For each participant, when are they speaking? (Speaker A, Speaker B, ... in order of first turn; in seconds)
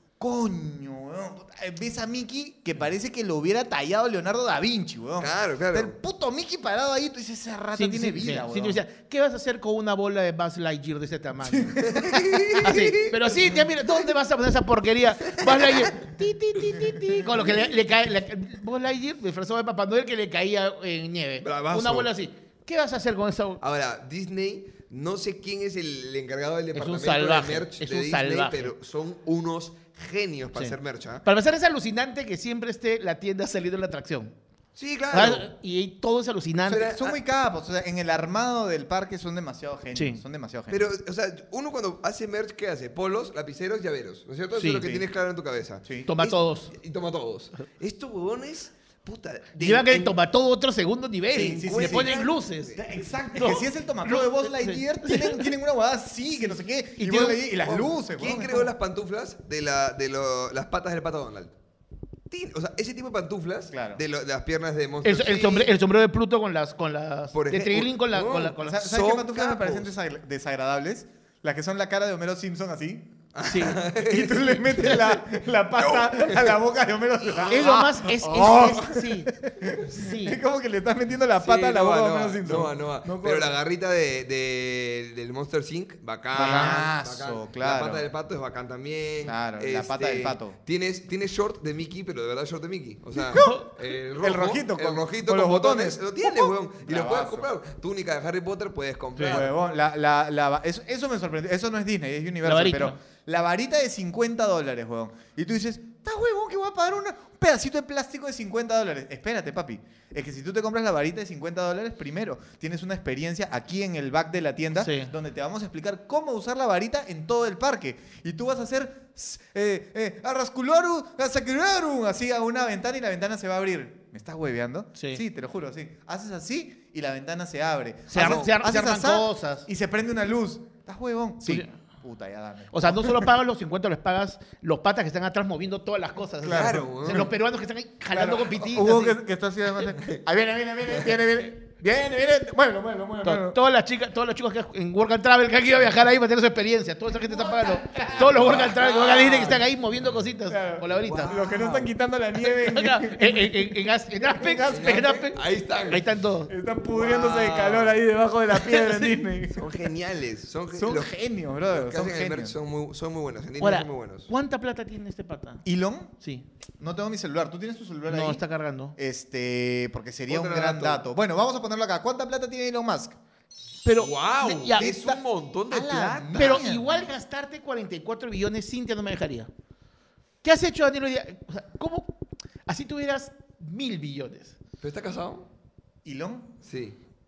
Speaker A: 0.2-8.8, 11.4-12.7, 36.7-40.9, 44.8-45.0, 45.8-46.1, 51.3-58.7, 63.7-64.0, 68.6-73.1, 73.9-83.5, 86.3-88.1, 89.2-90.6, 94.2-97.5, 99.2-133.3, 136.4-137.3, 138.1-143.6, 147.2-149.6, 150.5-155.2, 156.5-159.7, 160.7-162.6, 165.6-166.1, 166.8-168.4, 168.9-173.2, 174.7-177.1, 186.0-186.5
Speaker B: 5.2-5.9, 11.8-13.1, 15.4-15.8, 21.4-22.1, 23.6-31.2, 34.7-35.5, 36.7-37.2, 40.7-50.1, 51.4-52.8, 57.6-61.5, 62.3-65.7, 67.3-69.9, 73.3-76.6, 77.2-77.9, 81.3-99.5, 128.1-128.5, 136.5-137.3, 148.0-149.6, 150.9-151.9, 154.7-156.1, 156.8-158.0, 159.5-161.1, 161.7-164.3, 170.3-171.0, 174.0-176.7, 184.8-185.4, 186.6-186.9
Speaker C: 7.7-11.8, 12.6-23.6, 26.7-28.7, 30.5-34.3, 35.1-36.9, 39.9-40.2, 44.6-44.8, 46.0-46.7, 49.6-52.8, 53.4-55.5, 57.0-57.4, 65.0-68.8, 73.4-73.8, 77.5-80.4, 86.4-86.8, 93.3-93.7, 102.4-103.0, 114.8-115.1, 125.0-125.2, 128.1-129.7, 131.4-131.7, 132.7-139.2, 143.2-151.7, 152.4-156.5, 158.5-159.2, 163.6-165.6, 166.2-166.4, 168.1-168.9, 173.8-174.9, 176.3-179.5, 180.4-182.2, 182.7-184.6